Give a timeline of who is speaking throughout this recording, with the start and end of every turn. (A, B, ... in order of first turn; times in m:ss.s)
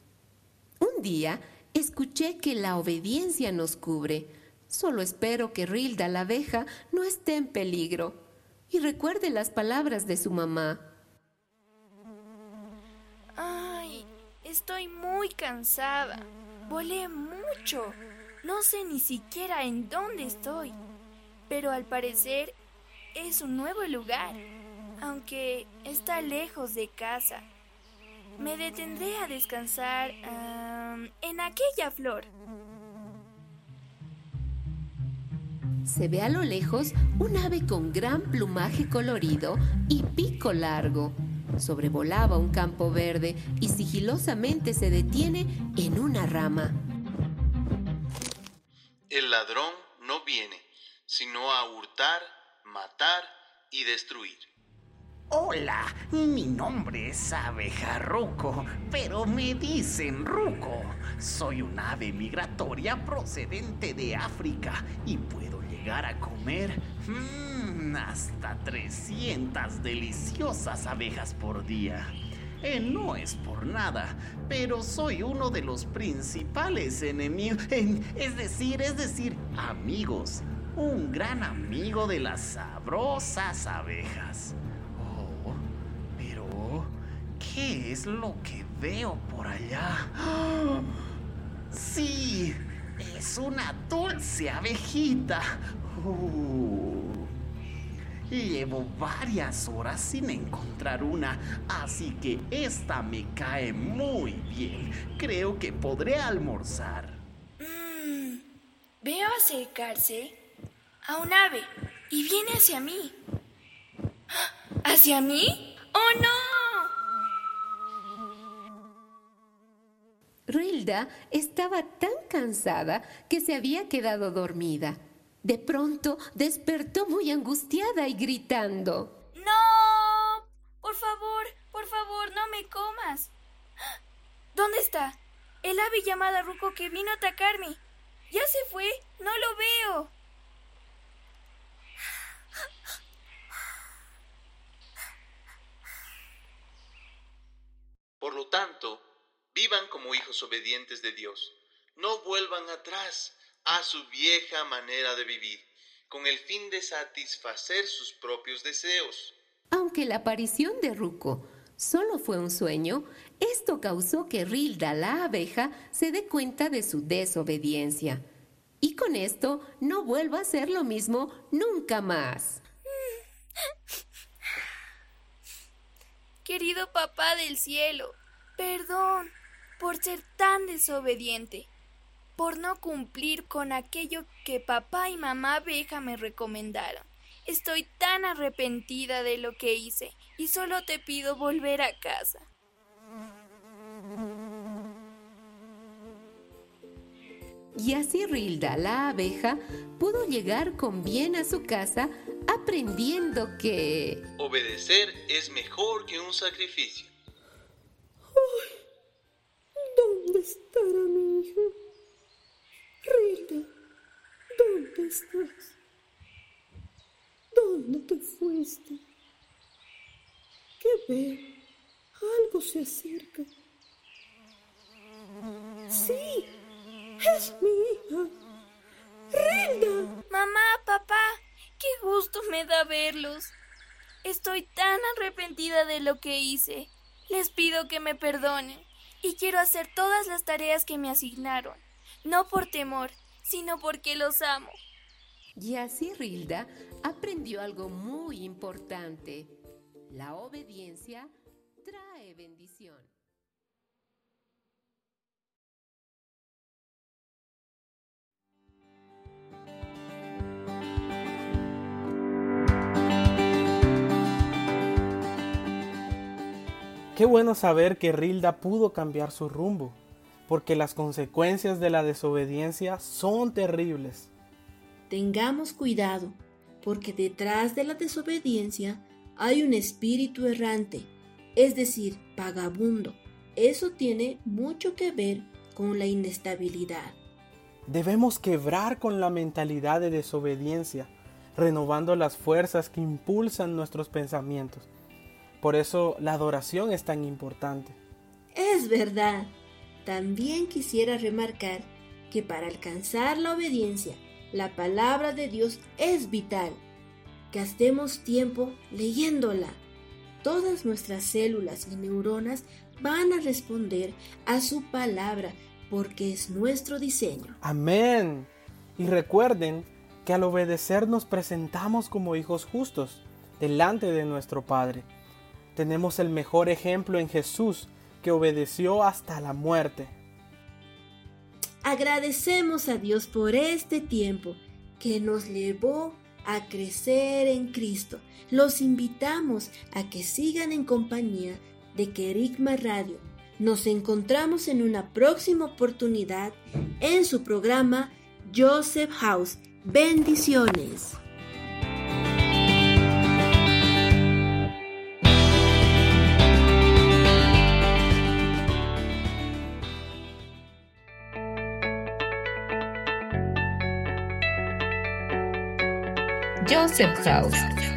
0:00.8-0:10.8 A
0:13.4-0:20.8 B
0:21.5-0:22.6 B
0:23.1-0:24.4 B
0:25.0-0:27.4 B
0:28.4-0:32.3 B
0:35.8-0:46.8 A
0:49.1-0:54.5 C
0:55.3-1:30.9 D
1:31.7-1:37.3 D
1:38.3-1:47.2 D
1:47.6-1:48.4 B
1:49.0-1:50.4 B
1:51.0-1:53.2 B
1:54.3-1:56.9 B
2:00.5-2:09.1 A
2:09.3-2:13.3 B
2:14.5-2:20.1 B
2:28.2-2:29.0 C
2:29.5-2:39.3 C
2:39.7-2:48.2 A
2:48.8-2:52.6 A
2:52.9-2:53.2 B
2:56.4-3:01.7 B
3:02.4-3:12.5 B
3:17.8-3:24.2 A
3:24.4-3:27.1 C
3:28.3-3:28.7 E
3:29.9-3:31.7 E
3:33.0-3:33.7 E
3:34.5-3:35.7 E
3:37.5-3:39.0 E
3:40.8-3:41.5 E
3:42.2-3:43.5 E
3:45.9-3:46.5 E
3:47.2-3:48.3 E
3:49.3-3:50.1 E
3:50.3-3:53.5 B
3:54.2-4:04.8 B
4:05.6-4:09.5 A
4:10.1-4:11.3 A
4:11.8-4:13.1 A
4:27.1-4:34.3 F
4:35.1-4:47.2 G
4:47.9-4:54.9 F
4:55.6-4:58.0 F
4:58.5-5:06.8 G
5:07.5-5:09.8 G
5:10.4-5:17.6 G
5:17.6-5:25.1 F
5:25.8-5:30.1 F
5:31.8-5:51.2 G
6:06.6-6:07.7 A